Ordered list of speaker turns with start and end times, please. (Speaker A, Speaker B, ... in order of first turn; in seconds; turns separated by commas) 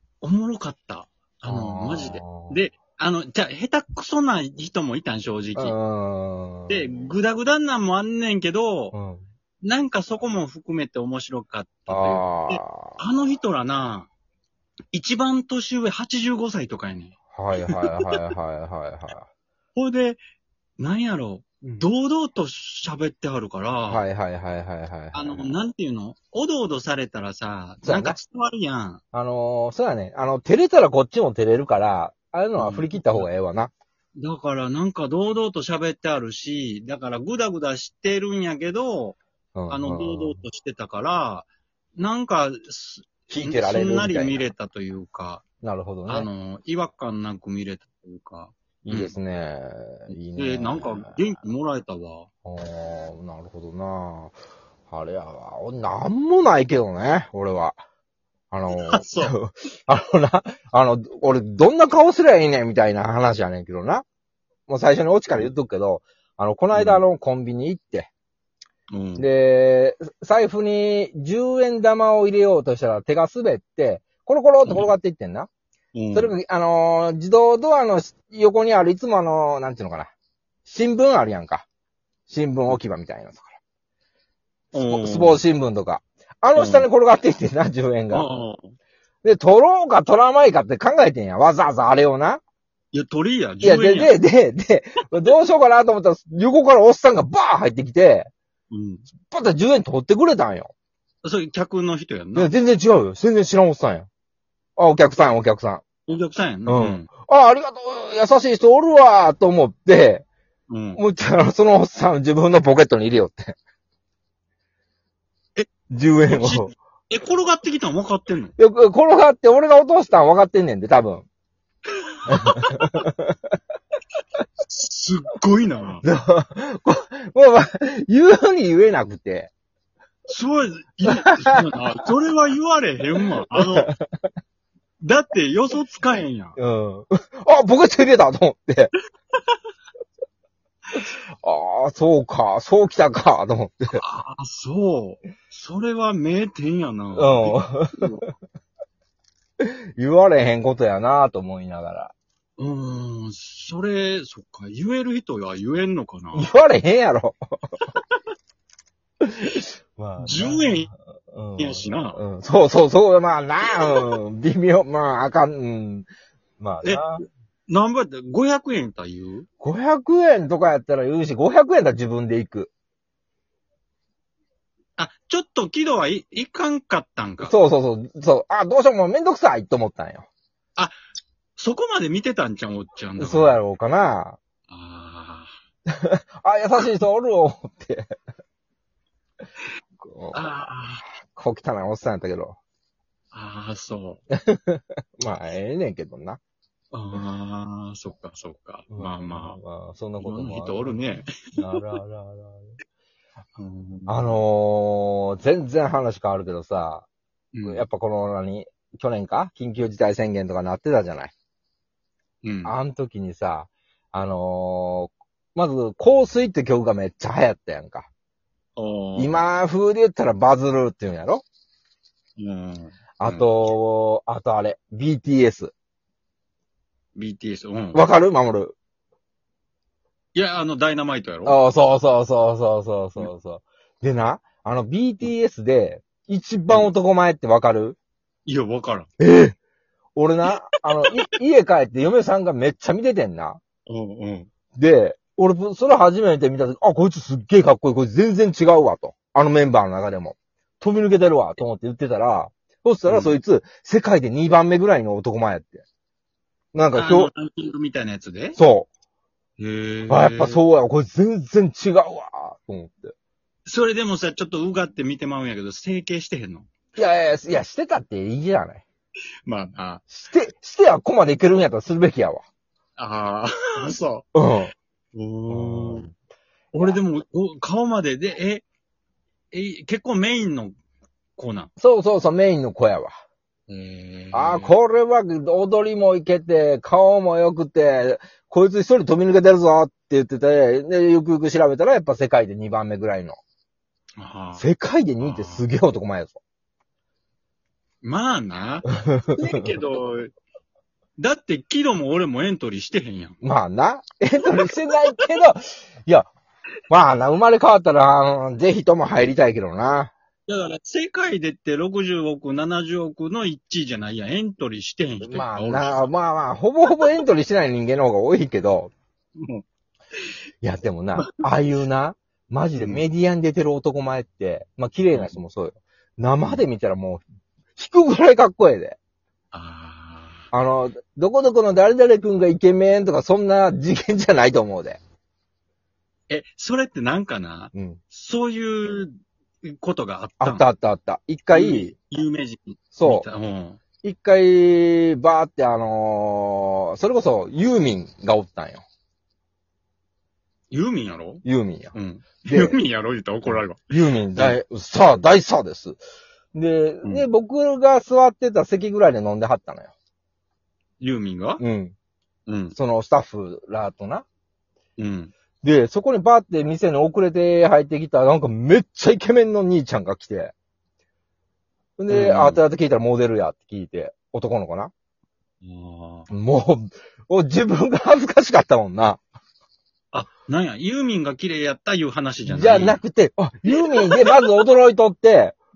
Speaker A: 0.2-5.8, Speaker B: 1.4-2.6, Speaker B: 5.6-7.1, Speaker A: 6.7-8.9, Speaker B: 8.9-9.2, Speaker A: 9.6-14.1, Speaker B: 11.9-13.0, Speaker A: 14.9-17.2, Speaker B: 17.3-19.3, Speaker A: 19.8-20.2, Speaker A: 20.8-24.0, Speaker B: 23.9-25.6, Speaker A: 25.1-29.0, Speaker B: 27.8-28.2, Speaker B: 29.1-33.7, Speaker A: 32.6-33.3, Speaker A: 34.2-39.2, Speaker B: 39.5-40.4, Speaker A: 39.7-45.4, Speaker B: 43.3-44.5, Speaker B: 45.6-46.3, Speaker A: 46.1-49.2, Speaker B: 48.9-51.2, Speaker A: 50.1-52.3, Speaker B: 52.5-54.4, Speaker B: 54.9-57.8, Speaker B: 58.5-64.0, Speaker A: 58.7-59.4, Speaker B: 64.7-68.1, Speaker A: 66.7-67.0, Speaker A: 68.9-69.3, Speaker B: 69.2-75.5, Speaker A: 74.6-74.9, Speaker A: 76.0-76.3, Speaker B: 76.1-80.1, Speaker B: 80.7-81.7, Speaker B: 82.3-83.5, Speaker A: 84.7-85.4, Speaker B: 84.8-88.3, Speaker A: 86.6-86.9, Speaker A: 88.1-88.7, Speaker B: 89.2-92.4, Speaker A: 92.9-94.2, Speaker B: 93.6-98.3, Speaker A: 98.7-99.1, Speaker B: 99.3-100.7, Speaker A: 101.2-102.5, Speaker B: 102.3-104.1, Speaker B: 104.8-105.8, Speaker A: 106.1-107.1, Speaker B: 106.7-110.3, Speaker A: 110.7-111.0, Speaker B: 111.0-113.6, Speaker B: 115.9-116.7, Speaker A: 116.2-118.5, Speaker B: 118.6-121.3, Speaker A: 122.0-123.0, Speaker B: 122.3-123.6, Speaker A: 124.6-126.0, Speaker B: 126.0-129.5, Speaker A: 130.3-133.9, Speaker B: 131.1-131.6, Speaker B: 133.5-134.3, Speaker A: 135.0-136.6, Speaker B: 136.6-138.9, Speaker B: 141.0-144.0, Speaker A: 143.9-148.2, Speaker B: 147.2-148.3, Speaker B: 149.6-152.1, Speaker A: 152.6-156.5, Speaker B: 156.3-157.8, Speaker A: 157.9-158.2, Speaker B: 159.2-166.1, Speaker A: 160.2-160.9, Speaker A: 161.6-162.2, Speaker B: 166.6-167.2, Speaker A: 166.8-169.5, Speaker B: 169.6-172.7, Speaker A: 175.0-177.5, Speaker B: 177.4-180.3, Speaker A: 181.6-183.6, Speaker B: 183.2-184.4, Speaker A: 184.7-185.5, Speaker B: 185.9-188.2, Speaker B: 190.0-190.6, Speaker A: 190.3-191.1, Speaker B: 191.3-192.6, Speaker A: 193.3-194.2, Speaker B: 194.3-196.4, Speaker A: 196.9-199.6, Speaker B: 198.9-201.0, Speaker A: 200.2-202.0, Speaker B: 201.5-202.7, Speaker A: 203.6-204.4, Speaker B: 204.1-207.1, Speaker A: 207.5-207.9, Speaker B: 207.7-211.3, Speaker A: 212.4-212.8, Speaker B: 212.7-218.1, Speaker A: 218.8-219.4, Speaker B: 219.2-221.4, Speaker A: 222.4-223.5, Speaker B: 223.2-225.7, Speaker A: 227.2-228.0, Speaker B: 227.9-228.8, Speaker A: 230.3-231.6, Speaker B: 231.4-238.0, Speaker A: 238.5-239.1, Speaker B: 239.2-239.6, Speaker B: 240.2-243.6, Speaker A: 243.9-244.5, Speaker B: 244.8-255.8, Speaker A: 253.1-253.4, Speaker B: 256.7-257.3, Speaker A: 256.9-258.6, Speaker B: 258.6-258.9, Speaker A: 259.6-260.6, Speaker B: 260.1-263.1, Speaker A: 263.7-266.7, Speaker B: 267.0-268.8, Speaker A: 269.4-270.0, Speaker B: 270.1-272.4, Speaker A: 273.0-274.3, Speaker B: 274.4-274.7, Speaker A: 275.1-276.1, Speaker B: 275.5-276.1, Speaker A: 276.7-278.7, Speaker A: 279.5-280.8, Speaker A: 281.4-281.7, Speaker B: 281.8-283.1, Speaker A: 283.7-284.8, Speaker B: 284.3-293.4, Speaker A: 294.2-294.7, Speaker B: 294.6-296.4, Speaker A: 295.2-295.6, Speaker A: 298.0-300.3, Speaker B: 299.0-299.7, Speaker A: 301.2-303.4, Speaker B: 303.4-306.3, Speaker B: 306.9-310.1, Speaker A: 310.5-316.1, Speaker B: 315.2-318.9, Speaker A: 319.4-319.6, Speaker B: 320.6-327.2, Speaker A: 322.8-323.1, Speaker B: 327.8-329.0, Speaker A: 329.5-330.4, Speaker B: 330.5-335.0, Speaker A: 336.3-340.6, Speaker B: 337.7-338.0, Speaker B: 340.4-341.9, Speaker A: 341.5-343.8, Speaker B: 342.9-343.3, Speaker B: 344.0-348.8, Speaker A: 350.7-354.6, Speaker B: 351.4-352.8, Speaker B: 353.4-356.0, Speaker B: 356.5-359.9, Speaker A: 361.0-361.6, Speaker B: 361.6-361.9, Speaker A: 362.5-362.8, Speaker B: 362.8-364.2, Speaker A: 365.0-365.3, Speaker B: 365.6-370.5, Speaker B: 372.0-374.9, Speaker A: 372.1-372.6, Speaker A: 375.6-376.3, Speaker B: 376.3-379.2, Speaker A: 380.1-383.0, Speaker B: 382.5-385.6, Speaker A: 383.7-384.4